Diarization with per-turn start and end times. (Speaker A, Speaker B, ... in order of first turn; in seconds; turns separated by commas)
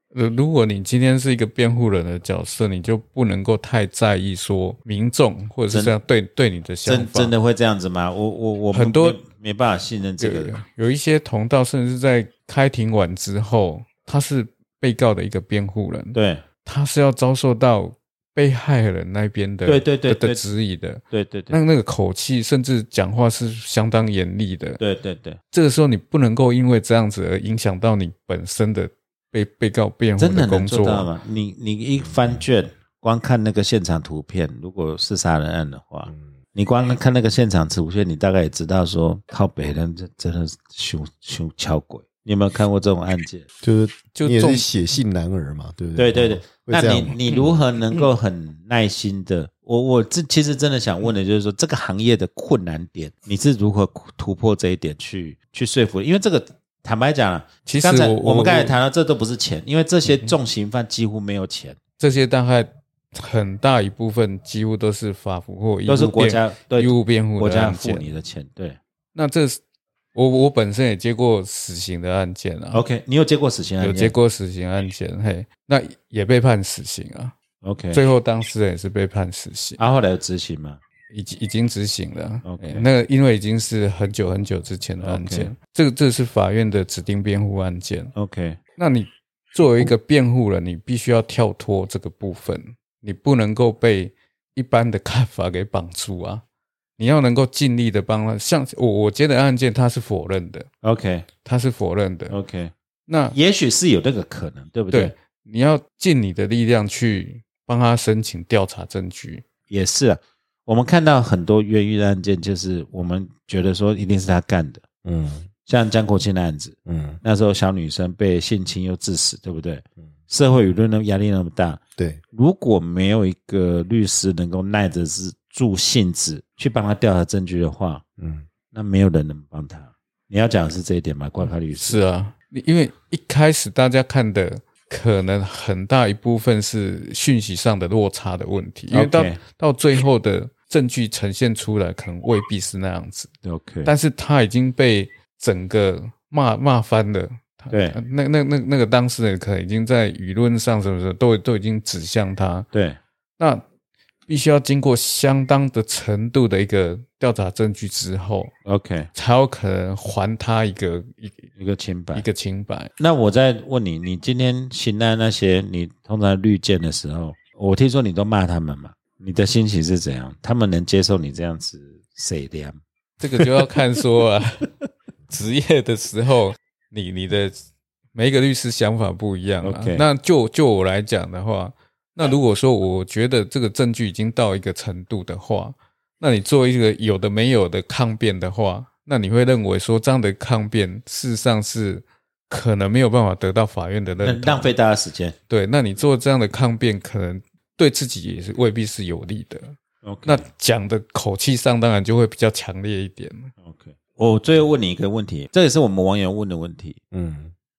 Speaker A: 0.1-7.3, Speaker B: 5.7-5.9, Speaker B: 6.8-10.6, Speaker A: 8.7-9.2, Speaker A: 10.2-24.8, Speaker B: 16.1-16.4, Speaker B: 19.6-20.4, Speaker B: 21.1-21.6, Speaker B: 24.8-25.4, Speaker A: 25.5-31.1, Speaker B: 30.2-43.4, Speaker C: 32.1-32.4, Speaker C: 43.6-47.2, Speaker A: 44.1-44.7, Speaker B: 46.0-61.8, Speaker A: 47.3-48.1, Speaker A: 57.6-58.7, Speaker A: 60.0-60.3, Speaker A: 62.0-68.1, Speaker B: 65.9-68.8, Speaker A: 69.1-69.6, Speaker A: 70.1-72.8, Speaker B: 72.7-74.1, Speaker A: 73.8-77.3, Speaker B: 77.6-78.0, Speaker A: 77.9-79.8, Speaker B: 79.8-80.8, Speaker A: 81.1-88.1, Speaker B: 82.4-82.8, Speaker B: 85.0-85.5, Speaker B: 88.1-88.6, Speaker A: 88.8-96.4, Speaker A: 97.0-100.7, Speaker B: 100.8-101.3, Speaker A: 101.4-102.4, Speaker B: 102.3-102.7, Speaker A: 103.1-103.3, Speaker B: 103.3-105.1, Speaker A: 104.9-109.4, Speaker B: 109.7-114.8, Speaker C: 115.0-115.5, Speaker B: 115.7-121.8, Speaker C: 116.8-117.2, Speaker B: 122.3-128.0, Speaker C: 128.2-128.5, Speaker B: 128.7-132.0, Speaker A: 131.8-143.3, Speaker B: 138.9-139.4, Speaker B: 143.4-143.9, Speaker A: 143.8-152.7, Speaker B: 147.7-148.0, Speaker B: 152.7-153.0, Speaker A: 153.4-153.6, Speaker A: 154.3-158.5, Speaker B: 158.6-159.1, Speaker A: 159.1-161.5, Speaker B: 161.6-162.2, Speaker A: 162.1-162.9, Speaker B: 163.0-172.8, Speaker A: 173.2-174.7, Speaker A: 175.3-177.6, Speaker A: 178.1-194.7, Speaker B: 179.6-180.0, Speaker B: 194.2-195.3, Speaker A: 195.5-203.5, Speaker B: 200.0-200.4, Speaker B: 203.6-207.0, Speaker C: 207.1-207.5